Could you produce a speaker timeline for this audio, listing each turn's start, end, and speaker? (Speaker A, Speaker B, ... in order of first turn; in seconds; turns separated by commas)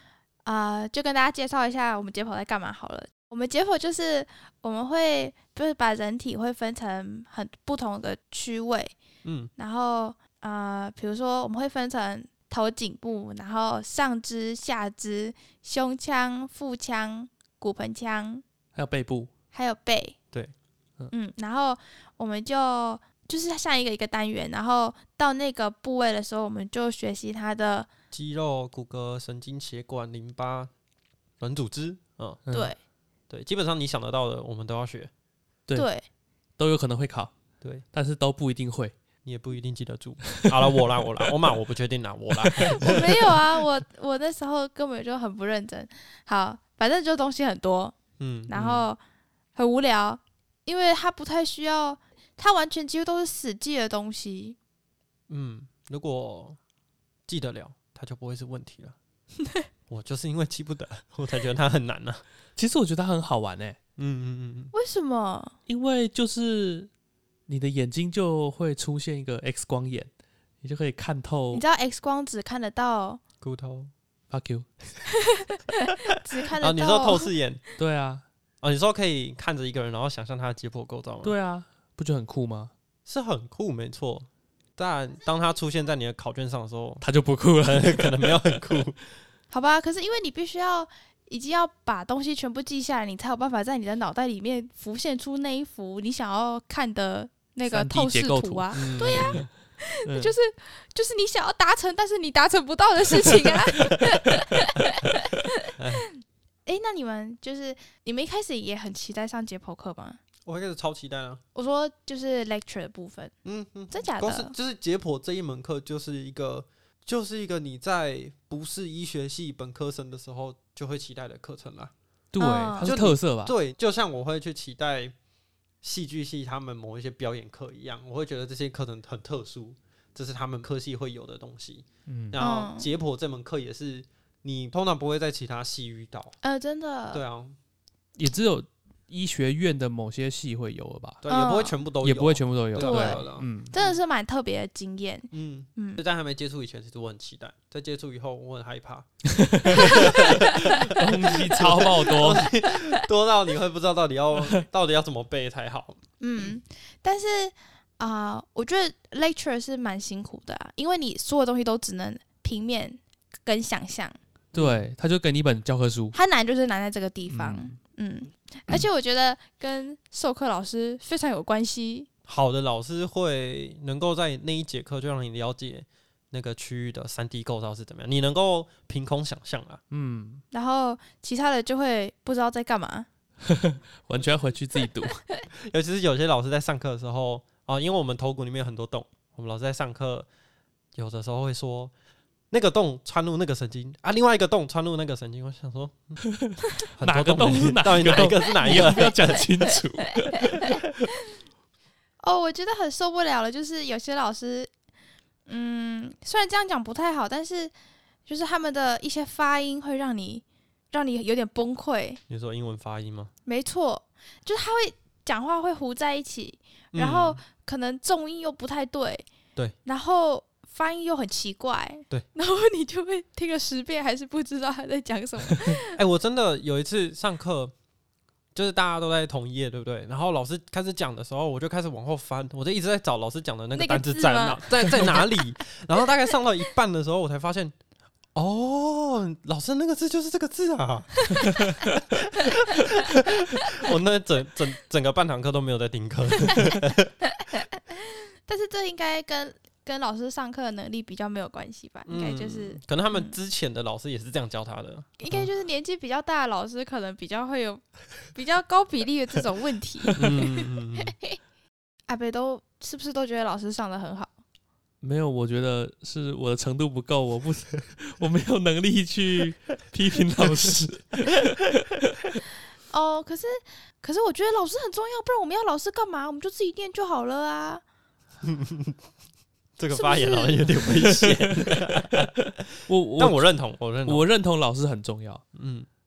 Speaker A: 0.4-8.9, Speaker B: 9.2-9.5, Speaker A: 9.6-18.4, Speaker C: 18.7-19.3, Speaker A: 19.5-20.1, Speaker A: 21.1-27.9, Speaker B: 28.1-30.7, Speaker B: 31.4-32.4, Speaker C: 32.5-32.7, Speaker A: 32.5-32.8, Speaker B: 33.3-35.1, Speaker A: 35.7-36.0, Speaker C: 36.6-37.3, Speaker C: 37.9-38.9, Speaker B: 39.2-43.4, Speaker C: 40.2-40.7, Speaker C: 42.4-42.8, Speaker A: 42.6-48.0, Speaker B: 48.2-48.8, Speaker A: 48.5-49.0, Speaker A: 49.5-54.6, Speaker B: 55.3-56.6, Speaker B: 57.3-59.0, Speaker B: 59.9-62.2, Speaker C: 62.6-63.8, Speaker B: 64.0-64.7, Speaker A: 64.7-65.5, Speaker C: 65.7-66.9, Speaker C: 67.5-70.1, Speaker C: 70.6-71.6, Speaker A: 71.5-73.2, Speaker B: 73.4-73.9, Speaker C: 74.3-75.0, Speaker A: 75.3-77.3, Speaker B: 76.6-77.6, Speaker C: 77.8-78.2, Speaker B: 78.6-81.3, Speaker C: 81.2-82.7, Speaker B: 83.0-87.0, Speaker C: 87.0-88.4, Speaker B: 87.6-89.0, Speaker A: 89.5-105.7, Speaker C: 97.7-99.5, Speaker B: 98.7-99.4, Speaker C: 100.0-100.3, Speaker B: 105.8-106.0, Speaker A: 106.7-110.2, Speaker B: 110.4-111.4, Speaker A: 111.5-113.3, Speaker B: 113.4-121.9, Speaker A: 113.9-114.5, Speaker C: 122.3-123.5, Speaker A: 122.4-123.0, Speaker B: 122.8-125.1, Speaker B: 125.8-136.3, Speaker C: 132.1-132.4, Speaker A: 132.4-132.9, Speaker A: 136.4-137.2, Speaker B: 137.1-137.6, Speaker C: 138.2-141.2, Speaker B: 141.2-143.9, Speaker A: 141.3-141.8, Speaker C: 142.0-143.7, Speaker A: 142.8-146.0, Speaker B: 145.3-149.1, Speaker C: 149.4-150.3, Speaker B: 149.6-156.0, Speaker A: 149.9-150.3, Speaker C: 150.8-152.5, Speaker A: 156.2-164.2, Speaker B: 164.5-164.8, Speaker C: 164.5-166.2, Speaker A: 166.1-172.1, Speaker C: 167.3-167.8, Speaker B: 172.3-179.8, Speaker C: 179.9-180.4, Speaker A: 180.5-183.1, Speaker C: 183.4-185.2, Speaker B: 185.6-190.3, Speaker B: 190.9-191.9, Speaker B: 192.5-196.2, Speaker C: 196.3-200.9, Speaker B: 196.9-199.5, Speaker A: 202.2-204.7, Speaker A: 205.5-207.7, Speaker A: 208.3-212.2, Speaker B: 212.3-213.3, Speaker A: 213.4-219.3, Speaker B: 216.9-217.4, Speaker A: 219.8-226.0, Speaker B: 225.9-227.7, Speaker B: 228.5-237.7, Speaker A: 233.7-235.2, Speaker B: 238.3-247.1, Speaker A: 248.4-253.3, Speaker B: 252.1-255.4, Speaker A: 255.2-261.0, Speaker B: 260.2-261.1, Speaker C: 260.2-260.4, Speaker A: 262.1-264.3, Speaker C: 265.0-272.4, Speaker A: 272.9-277.8, Speaker B: 278.4-278.9, Speaker B: 279.8-282.3, Speaker A: 279.9-280.7, Speaker C: 281.1-281.8, Speaker C: 282.9-283.5, Speaker B: 283.2-284.2, Speaker C: 284.0-285.4, Speaker B: 285.5-285.9